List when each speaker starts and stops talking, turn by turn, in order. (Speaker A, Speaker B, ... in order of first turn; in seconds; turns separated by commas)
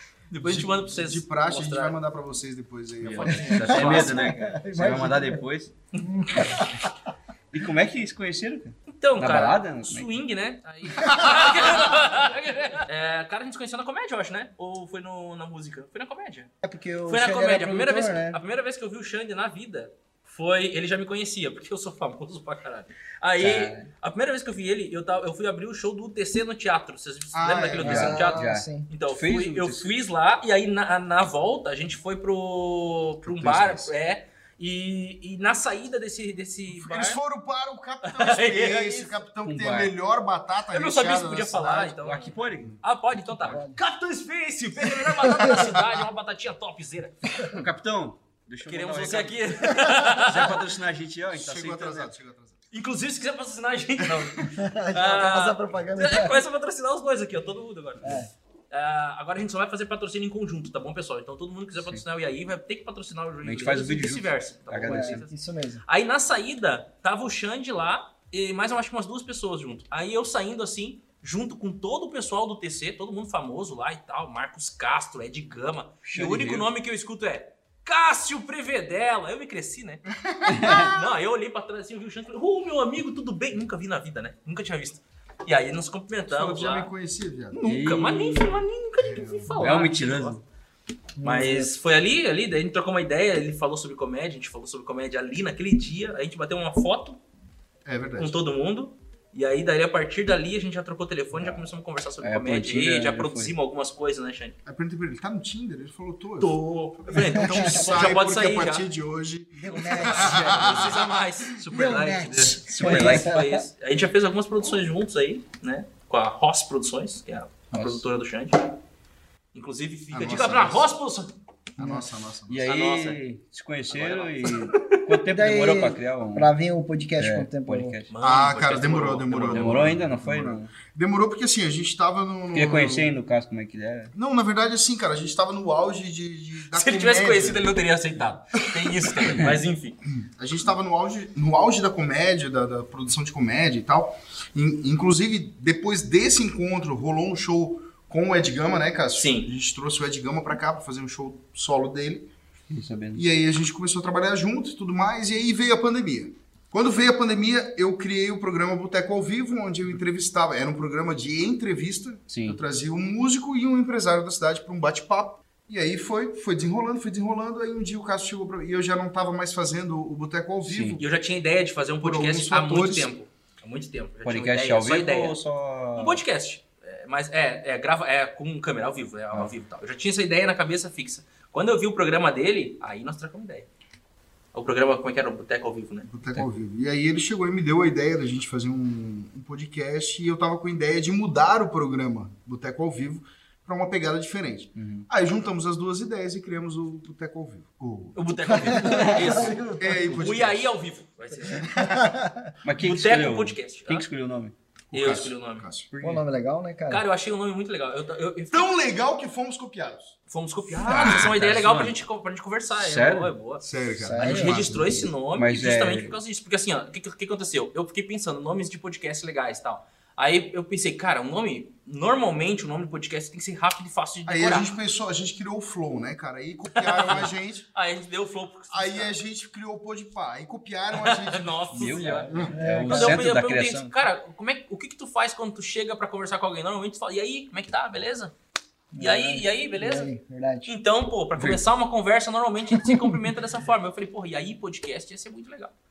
Speaker A: 0.3-2.0, Speaker B: 0.4-4.0, Speaker C: 3.0-5.7, Speaker A: 3.0-4.3, Speaker D: 3.7-5.4, Speaker D: 6.0-6.9, Speaker C: 7.5-10.2, Speaker A: 8.9-16.5, Speaker B: 11.1-11.8, Speaker D: 16.6-18.4, Speaker A: 17.1-37.2, Speaker C: 23.4-23.9, Speaker B: 27.3-28.3, Speaker D: 27.8-28.9, Speaker C: 27.8-29.9, Speaker C: 33.2-33.9, Speaker B: 36.8-42.0, Speaker A: 38.0-39.1, Speaker C: 39.4-39.9, Speaker A: 40.7-47.3, Speaker C: 42.0-42.8, Speaker D: 43.4-43.8, Speaker B: 44.8-46.0, Speaker C: 47.4-52.1, Speaker A: 48.7-50.5, Speaker B: 51.3-52.6, Speaker A: 52.7-65.3, Speaker B: 54.0-54.5, Speaker D: 54.5-56.4, Speaker D: 58.0-58.3, Speaker C: 63.4-65.3, Speaker D: 64.8-65.8, Speaker A: 65.9-80.0, Speaker C: 76.0-76.7, Speaker B: 80.3-80.7, Speaker C: 80.5-81.0, Speaker A: 80.6-86.9, Speaker B: 86.3-87.6, Speaker A: 87.5-90.4, Speaker C: 87.7-88.6, Speaker B: 89.0-89.7, Speaker C: 89.5-90.4, Speaker D: 91.2-91.7, Speaker A: 91.2-97.2, Speaker B: 97.9-98.3, Speaker A: 98.2-104.6, Speaker C: 101.4-101.7, Speaker C: 102.2-103.5, Speaker B: 104.7-111.6, Speaker A: 106.4-108.8, Speaker D: 107.3-108.0, Speaker D: 109.5-111.0, Speaker A: 110.1-118.7, Speaker D: 111.7-113.6, Speaker C: 112.6-113.4, Speaker C: 117.7-118.0, Speaker A: 119.5-121.3, Speaker B: 120.1-120.9, Speaker B: 121.8-122.7, Speaker C: 122.5-126.5, Speaker A: 122.7-123.2, Speaker A: 123.9-125.2, Speaker D: 125.3-128.0, Speaker C: 127.2-128.1, Speaker A: 128.1-129.8, Speaker B: 128.2-133.1, Speaker C: 129.5-130.7, Speaker C: 132.5-134.1, Speaker B: 134.2-137.7, Speaker A: 136.7-140.0, Speaker B: 138.6-139.4, Speaker B: 140.1-152.3, Speaker A: 149.2-149.5, Speaker C: 152.7-153.3, Speaker B: 153.2-171.1, Speaker C: 162.3-162.6, Speaker C: 170.6-171.0, Speaker A: 171.0-175.4, Speaker B: 172.0-173.1, Speaker C: 174.2-176.2, Speaker A: 175.9-183.7, Speaker A: 184.5-186.1, Speaker B: 186.1-198.2, Speaker C: 194.8-195.1, Speaker A: 198.2-201.7, Speaker D: 198.5-200.2, Speaker C: 198.8-199.6, Speaker B: 199.8-200.7, Speaker B: 201.6-202.1, Speaker D: 201.8-202.5, Speaker C: 202.6-204.6, Speaker A: 202.8-204.1, Speaker A: 204.9-205.7, Speaker B: 204.9-205.9, Speaker C: 205.9-206.2, Speaker D: 206.0-207.0, Speaker A: 206.9-208.7, Speaker B: 208.5-210.2, Speaker A: 210.3-213.7, Speaker B: 210.8-211.3, Speaker C: 210.8-212.0, Speaker C: 212.8-213.3, Speaker B: 213.6-215.1, Speaker D: 214.0-214.8, Speaker A: 214.2-224.7, Speaker C: 215.3-216.2, Speaker B: 224.3-227.7, Speaker A: 226.8-229.2, Speaker B: 228.7-232.4, Speaker A: 230.9-238.3, Speaker C: 231.7-233.9, Speaker D: 232.5-233.2, Speaker D: 238.9-240.7, Speaker A: 239.0-240.1, Speaker A: 240.7-245.7, Speaker C: 241.4-241.6, Speaker D: 242.7-243.2